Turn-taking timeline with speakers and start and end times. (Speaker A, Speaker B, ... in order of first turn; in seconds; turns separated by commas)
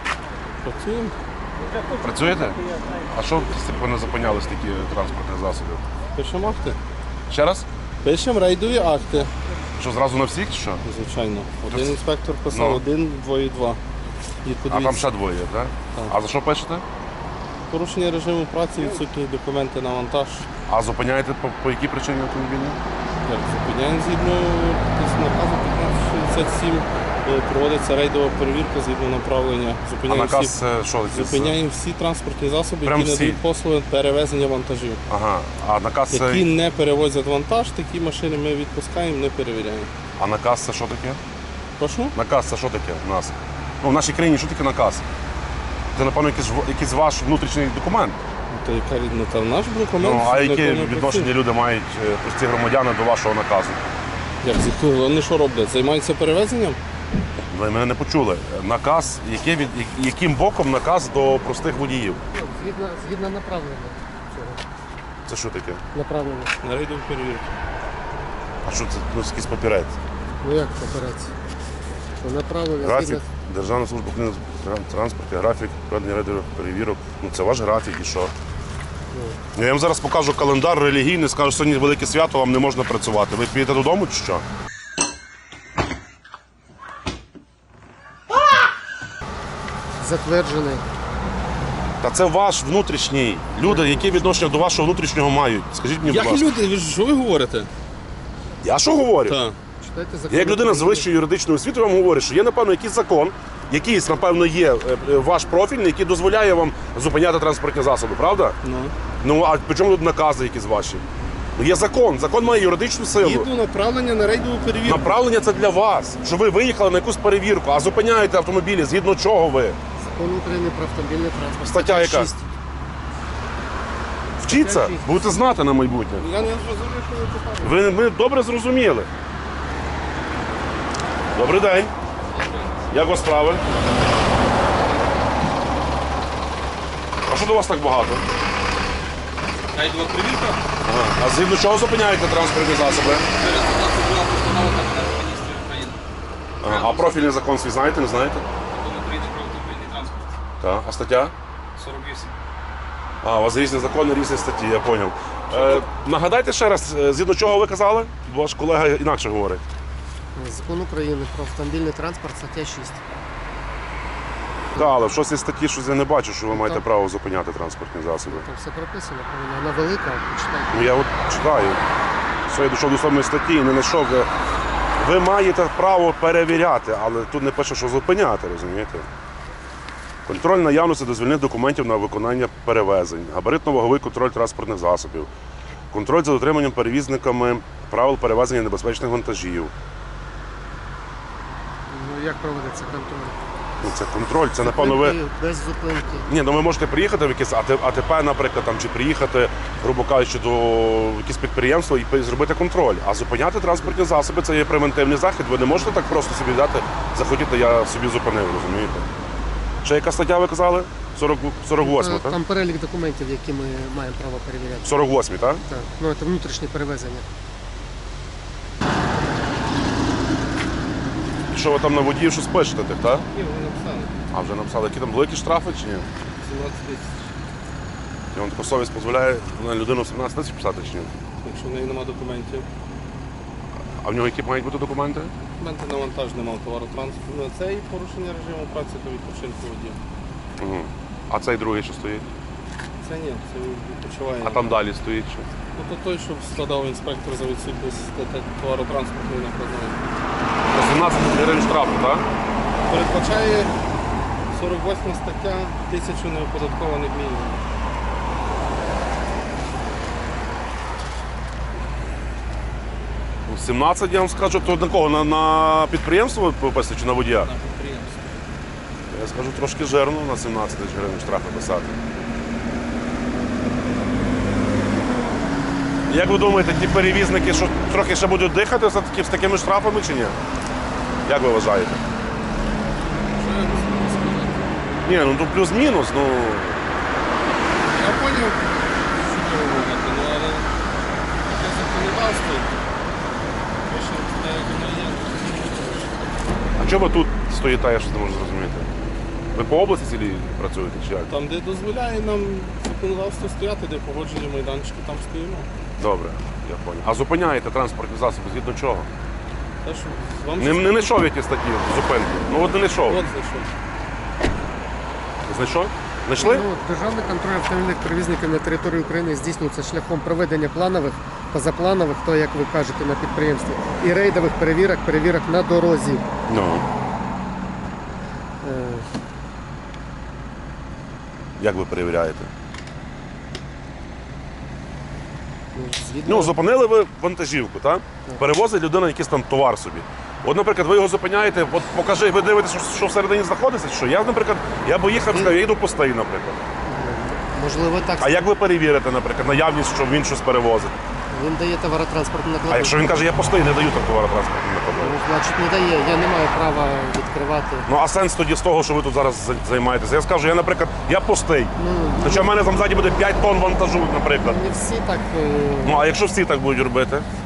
Speaker A: 0.6-1.2, Speaker B: 2.0-2.6, Speaker B: 3.1-5.8, Speaker A: 6.2-6.8, Speaker B: 7.3-7.7, Speaker A: 8.0-9.3, Speaker B: 9.8-10.8, Speaker A: 10.8-13.8, Speaker B: 11.7-12.0, Speaker B: 12.5-12.8, Speaker A: 14.4-15.1, Speaker B: 14.7-16.9, Speaker A: 17.7-20.5, Speaker B: 20.7-22.8, Speaker A: 23.2-30.6, Speaker B: 30.1-31.6, Speaker A: 31.1-35.0, Speaker B: 32.9-33.4, Speaker B: 35.1-36.5, Speaker A: 36.1-39.9, Speaker B: 40.2-41.2, Speaker A: 41.8-42.1, Speaker B: 42.1-45.0, Speaker B: 45.9-48.2, Speaker A: 48.5-51.3, Speaker B: 50.0-53.8, Speaker A: 54.4-56.8, Speaker B: 57.5-62.2, Speaker C: 62.3-64.6, Speaker B: 65.3-65.8, Speaker C: 65.9-66.5, Speaker A: 66.6-67.6, Speaker B: 68.6-70.0, Speaker C: 70.4-71.3, Speaker C: 72.2-73.3, Speaker B: 72.8-78.3, Speaker C: 79.1-79.4, Speaker B: 79.5-84.4, Speaker C: 90.0-90.8, Speaker B: 92.0-96.5, Speaker C: 93.6-94.1, Speaker A: 96.0-97.7, Speaker B: 98.6-99.4, Speaker A: 99.3-99.6, Speaker C: 99.8-101.1, Speaker B: 100.3-108.6, Speaker A: 108.6-108.9, Speaker B: 109.2-113.5, Speaker A: 113.2-115.2, Speaker B: 114.8-119.8, Speaker C: 120.0-122.5, Speaker B: 121.6-122.3, Speaker B: 124.4-126.2, Speaker C: 124.4-125.3, Speaker A: 126.2-128.0, Speaker B: 127.6-129.1, Speaker B: 131.3-131.9, Speaker D: 132.3-132.7, Speaker B: 132.9-133.6, Speaker B: 137.3-138.3, Speaker D: 139.7-140.6, Speaker B: 140.8-143.3, Speaker D: 143.3-146.0, Speaker D: 146.6-147.2, Speaker B: 146.6-148.4, Speaker D: 148.7-150.3, Speaker B: 150.6-151.3, Speaker D: 151.8-152.4, Speaker B: 153.2-159.6, Speaker D: 155.5-155.9, Speaker C: 160.3-163.0, Speaker B: 164.8-168.5, Speaker C: 166.5-166.8, Speaker C: 168.3-170.9, Speaker B: 170.7-171.8, Speaker B: 172.5-174.3, Speaker B: 175.0-179.1, Speaker B: 180.3-185.3, Speaker B: 185.9-189.7, Speaker C: 191.9-193.4, Speaker B: 193.8-195.2, Speaker C: 194.6-196.3, Speaker B: 196.3-209.1, Speaker C: 205.7-206.2, Speaker B: 209.8-212.4, Speaker C: 211.8-214.9, Speaker B: 214.8-215.6, Speaker C: 215.7-217.3, Speaker B: 221.5-223.3, Speaker A: 223.3-224.1, Speaker B: 224.3-226.1, Speaker A: 226.4-227.3, Speaker B: 228.3-231.1, Speaker A: 231.4-232.7, Speaker B: 234.0-235.3, Speaker A: 235.6-240.0, Speaker B: 240.6-242.3, Speaker A: 243.0-244.8, Speaker B: 244.4-245.5, Speaker A: 245.8-250.0, Speaker B: 250.7-252.3, Speaker A: 252.9-253.7, Speaker A: 254.5-257.6, Speaker B: 263.5-267.5, Speaker D: 267.4-268.3, Speaker B: 269.1-272.0, Speaker B: 276.1-280.4, Speaker B: 281.3-282.0, Speaker A: 283.2-284.7, Speaker B: 285.1-286.9, Speaker A: 287.9-290.7, Speaker A: 291.4-292.7, Speaker A: 293.9-296.1, Speaker B: 296.8-298.9, Speaker B: 299.5-301.3, Speaker A: 301.3-305.7, Speaker B: 306.0-309.1, Speaker A: 309.8-311.2, Speaker B: 310.6-313.2, Speaker A: 312.7-313.7, Speaker B: 315.5-316.7, Speaker C: 316.4-326.2, Speaker B: 326.5-326.9, Speaker C: 328.6-329.1, Speaker B: 331.6-332.5, Speaker C: 335.7-336.6, Speaker B: 336.3-346.6, Speaker C: 345.3-345.6, Speaker C: 346.9-348.5, Speaker B: 348.2-350.9, Speaker C: 351.3-353.1, Speaker B: 352.7-355.2, Speaker C: 354.9-357.9, Speaker B: 357.9-364.6, Speaker C: 361.8-362.5, Speaker C: 364.4-366.1, Speaker B: 365.8-367.3